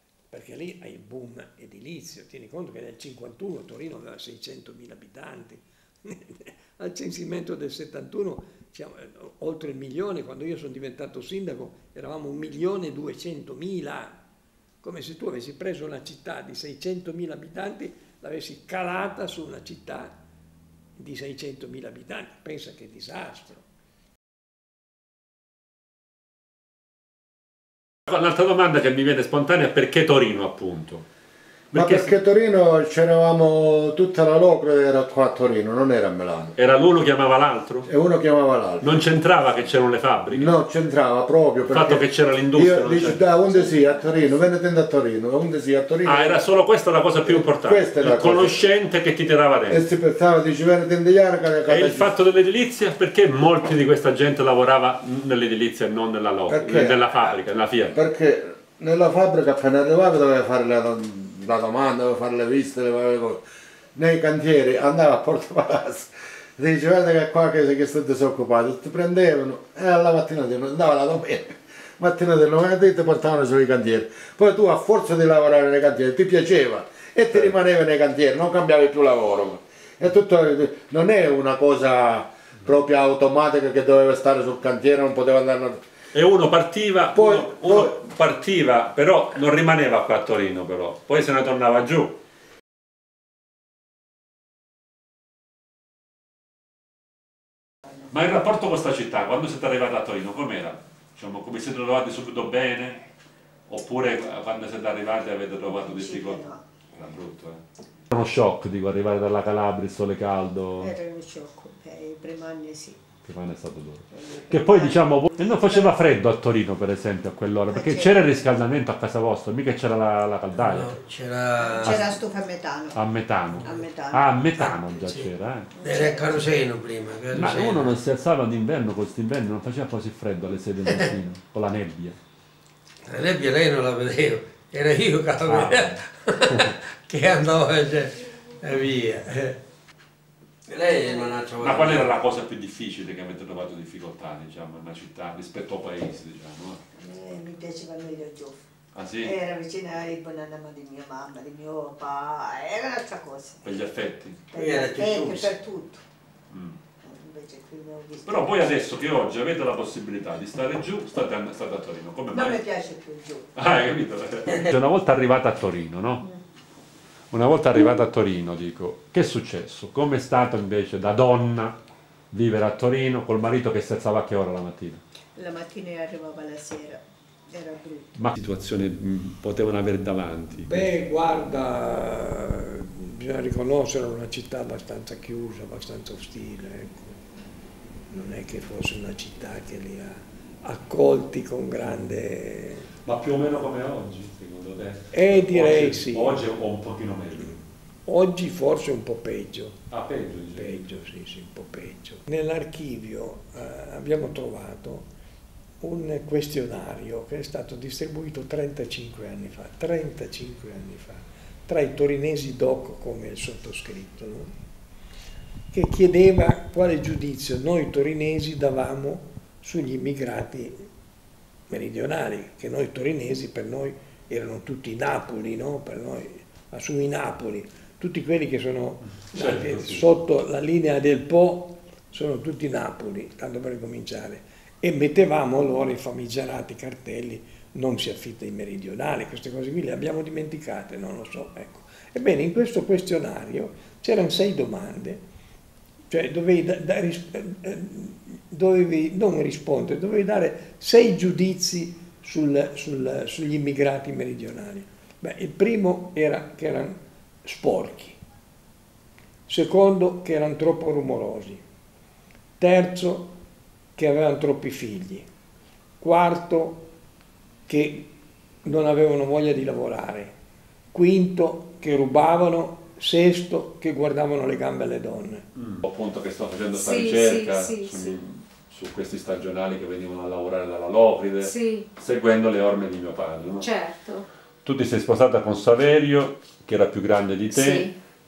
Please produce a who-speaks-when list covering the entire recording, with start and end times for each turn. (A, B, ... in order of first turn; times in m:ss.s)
0:00.3-0:14.2 A
0:14.8-0:20.1 A
0:21.0-0:23.6 A
0:28.1-0:31.1 B
0:31.7-0:32.1 B
0:31.7-0:36.5 C
0:36.6-0:37.9 B
0:37.9-0:38.9 C
0:38.8-0:40.5 B
0:40.3-0:46.4 C
0:41.7-0:43.3 B
0:46.0-0:49.8 B
0:47.3-0:48.6 C
0:49.7-0:52.1 C
0:51.7-0:58.0 B
0:56.5-0:57.2 C
0:57.9-1:03.4 C
1:04.0-1:25.8 C
1:26.1-1:32.2 B
1:27.2-1:27.9 C
1:38.1-1:43.0 B
1:43.7-1:47.6 B
1:45.6-1:46.6 D
1:48.1-1:50.9 B
1:50.8-1:53.0 D
1:53.2-2:00.9 B
1:54.1-1:56.0 D
1:57.7-1:58.4 D
2:00.6-2:02.1 E
2:01.6-2:05.2 D
2:01.8-2:02.1 B
2:02.9-2:05.7 B
2:05.7-2:06.4 D
2:05.8-2:07.9 E
2:07.3-2:12.2 B
2:13.1-2:19.6 E
2:15.5-2:16.0 B
2:20.7-2:22.1 E
2:20.9-2:21.4 D
2:21.6-2:26.8 B
2:26.9-2:28.6 D
2:28.9-2:29.4 B
2:29.2-2:33.8 D
2:33.6-2:34.4 B
2:34.4-2:36.0 D
2:34.5-2:35.6 E
2:36.5-2:36.8 B
2:37.0-2:38.7 D
2:38.2-2:42.6 B
2:42.3-2:43.7 D
2:43.6-2:46.2 B
2:47.3-2:51.8 B
2:52.3-2:55.0 B
2:55.4-2:58.1 D
2:58.2-3:00.9 B
3:00.5-3:07.2 A
3:08.1-3:12.9 A
3:13.0-3:17.6 B
3:15.1-3:16.5 A
3:18.1-3:19.8 A
3:19.9-3:20.9 B
3:20.5-3:25.1 A
3:25.8-3:34.5 A
3:35.7-3:40.9 A
3:41.7-4:05.2 A
3:49.3-3:50.0 B
4:06.1-4:18.2 A
4:19.5-4:21.6 A
4:22.6-4:23.4 A
4:24.0-4:25.3 A
4:26.0-4:26.9 A
4:27.7-4:28.1 A
4:28.6-4:30.3 A
4:30.9-4:35.4 A
4:35.6-4:43.7 B
4:36.7-4:38.2 F
4:41.4-4:41.9 F
4:43.6-4:44.3 F
4:44.6-4:47.9 B
4:47.5-4:48.0 F